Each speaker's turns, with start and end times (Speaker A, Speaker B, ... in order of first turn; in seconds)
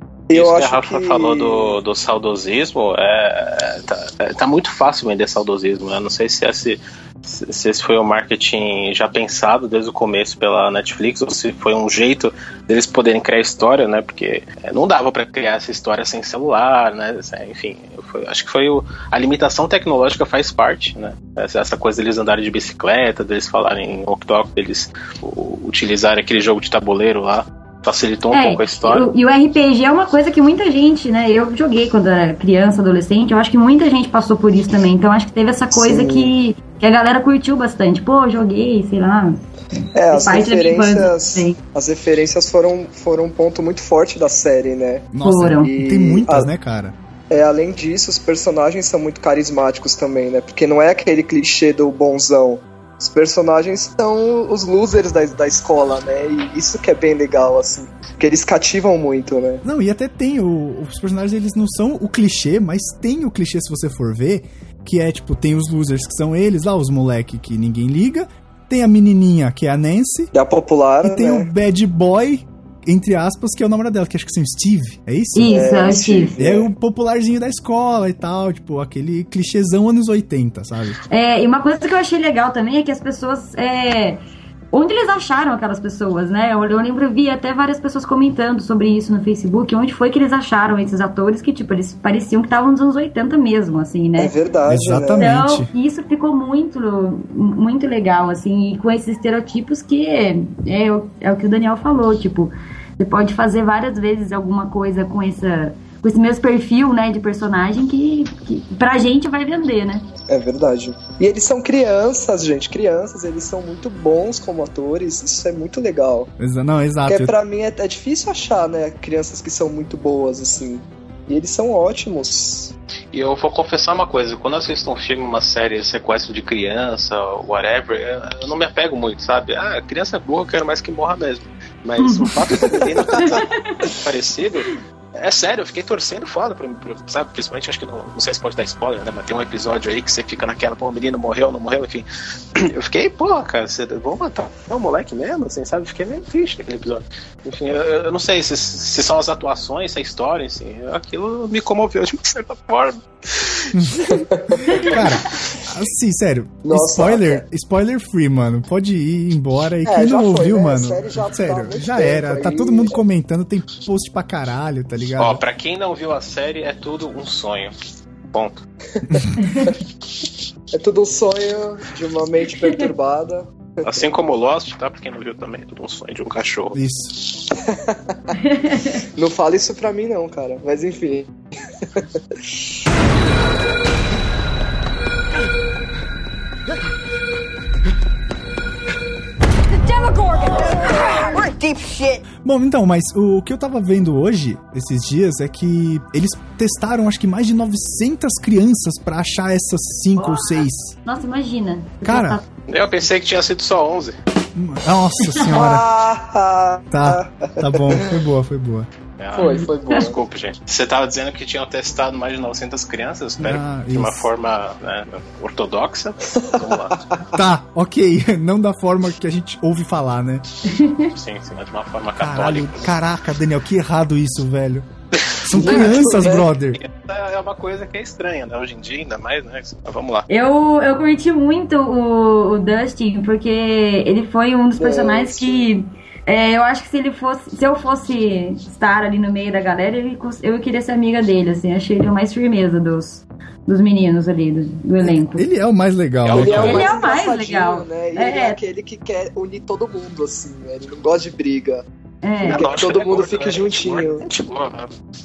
Speaker A: 0.3-1.8, 35.7-36.3, 39.9-46.5, 47.3-59.6, 70.3-71.5, 75.5-76.7, 94.2-95.3, 110.3-116.3, 117.1-122.7, 132.7-133.3, 154.1-155.0, 156.6-157.4, 159.8-163.0, 169.2-169.7, 170.7-173.9, 177.5-178.3, 179.0-181.3, 181.9-182.4, 205.5-208.2, 209.3-210.2, 216.3-217.2, 225.5-226.5, 234.8-235.7, 246.3-251.8, 252.4-254.2
Speaker B: 0.3-29.1, 123.1-153.7, 165.2-167.7, 168.3-168.6, 173.8-176.8, 202.7-204.2, 209.2-217.1, 221.1-222.9, 226.8-230.3, 246.2-246.9, 252.4-254.9
Speaker C: 28.3-41.6, 45.2-45.7, 75.3-76.4, 81.1-94.3, 95.2-110.0, 132.0-132.3, 133.2-133.8, 169.4-169.7, 178.4-179.0, 200.2-202.4, 209.5-210.1, 220.7-221.1, 230.3-245.5, 246.6-248.6, 252.2-252.6
Speaker D: 45.1-46.9, 59.6-70.3, 71.0-81.0, 94.7-95.7, 116.4-117.3, 153.7-165.4, 169.0-169.4, 176.7-177.2, 192.4-200.9, 202.0-202.4, 204.5-205.8, 206.9-208.9, 213.4-214.3, 217.3-220.4, 222.2-226.8, 245.3-246.9
Speaker E: 189.8-192.2